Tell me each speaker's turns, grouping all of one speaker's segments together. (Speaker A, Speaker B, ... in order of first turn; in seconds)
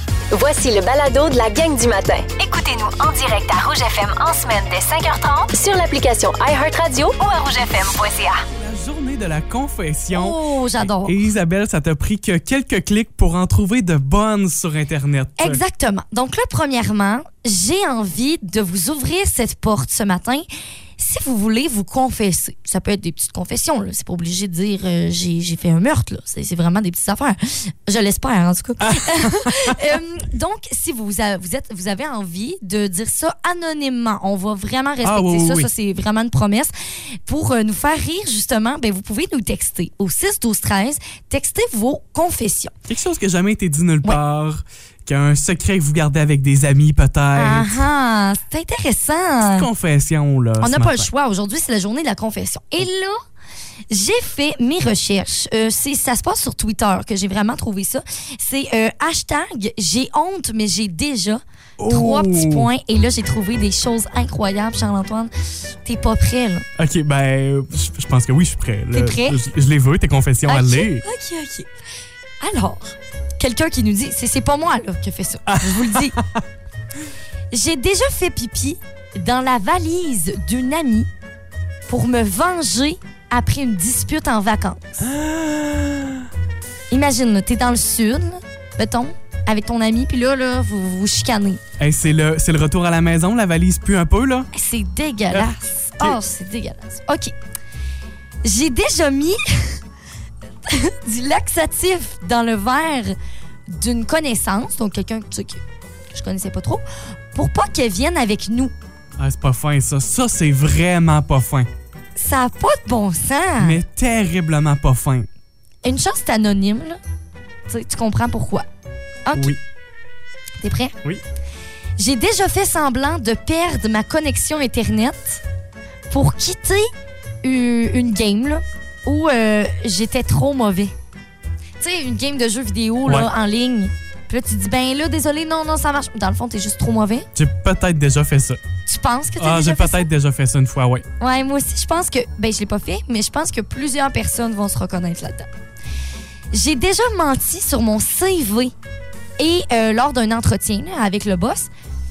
Speaker A: 0.3-8.4
Speaker B: 8.5-15.6, 28.8-30.0, 35.0-35.7, 42.9-47.8, 49.4-51.1, 61.8-62.7, 66.8-71.0, 75.5-76.4, 85.0-86.3, 91.8-94.5, 95.3-96.2, 109.2-111.7, 113.6-115.3, 119.3-119.6, 133.0-133.3, 137.3-138.6, 139.4-141.1
Speaker C: 10.1-11.2, 15.4-20.4, 21.0-36.7, 37.3-42.7, 47.3-49.7, 50.6-53.2, 53.9-65.3, 65.8-66.6, 68.9-69.4, 70.5-71.7, 72.4-76.2, 77.5-81.1, 81.9-85.0, 86.9-91.6, 94.5-97.3, 98.4-99.8, 100.7-103.1, 103.7-108.8, 112.2-113.8, 115.8-117.0, 117.7-118.7, 119.2-119.6, 120.6-121.0, 122.0-125.4, 126.1-126.9, 127.4-130.9, 131.8-137.3, 138.8-140.1, 141.2-145.5, 146.5-148.7, 149.4-151.7